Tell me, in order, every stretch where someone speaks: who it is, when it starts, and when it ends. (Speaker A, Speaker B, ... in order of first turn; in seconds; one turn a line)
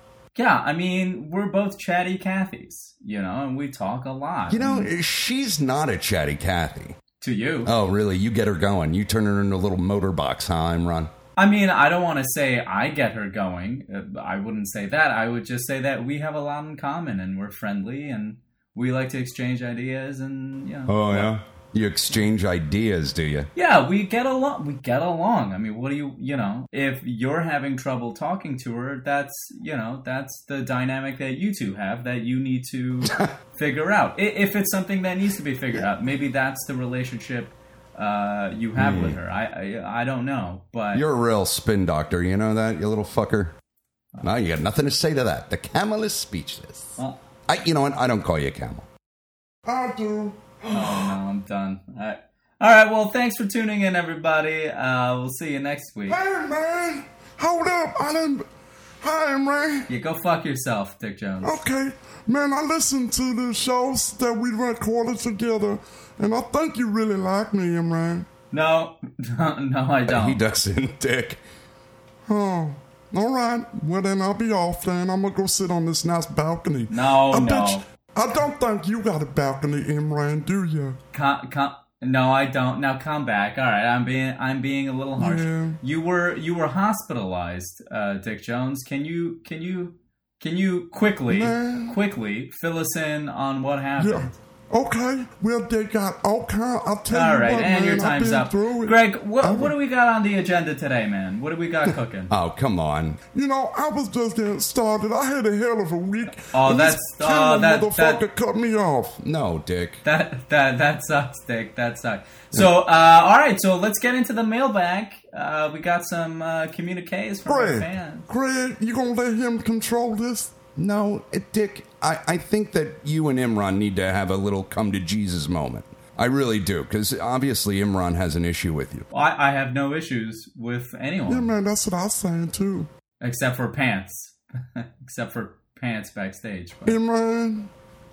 Speaker A: 0.3-4.9
Speaker B: 4.5-7.0
Speaker A: 7.2-7.7
Speaker B: 7.6-11.1
Speaker A: 11.4-21.3
Speaker B: 20.9-23.5
Speaker A: 23.6-41.0
Speaker B: 38.8-39.2
Speaker B: 40.9-43.5
Speaker B: 44.2-48.9
Speaker C: 49.6-51.1
Speaker A: 50.7-56.2
Speaker C: 56.1-58.5
Speaker C: 59.0-59.9
Speaker A: 59.9-61.6
Speaker C: 61.4-68.3
Speaker A: 68.5-70.4
Speaker B: 70.0-71.4
Speaker C: 72.3-81.0
Speaker A: 76.9-77.8
Speaker A: 81.1-94.3
Speaker C: 85.2-85.8
Speaker C: 91.3-92.0
Speaker C: 94.0-99.7
Speaker A: 97.1-102.3
Speaker B: 102.3-103.2
Speaker C: 103.3-109.2
Speaker A: 106.5-108.2
Speaker B: 109.2-110.0
Speaker A: 110.0-118.3
Speaker C: 117.5-120.5
Speaker B: 120.8-129.1
Speaker A: 129.1-131.5
Speaker C: 131.3-132.9
Speaker A: 133.2-137.0
Speaker C: 136.8-137.7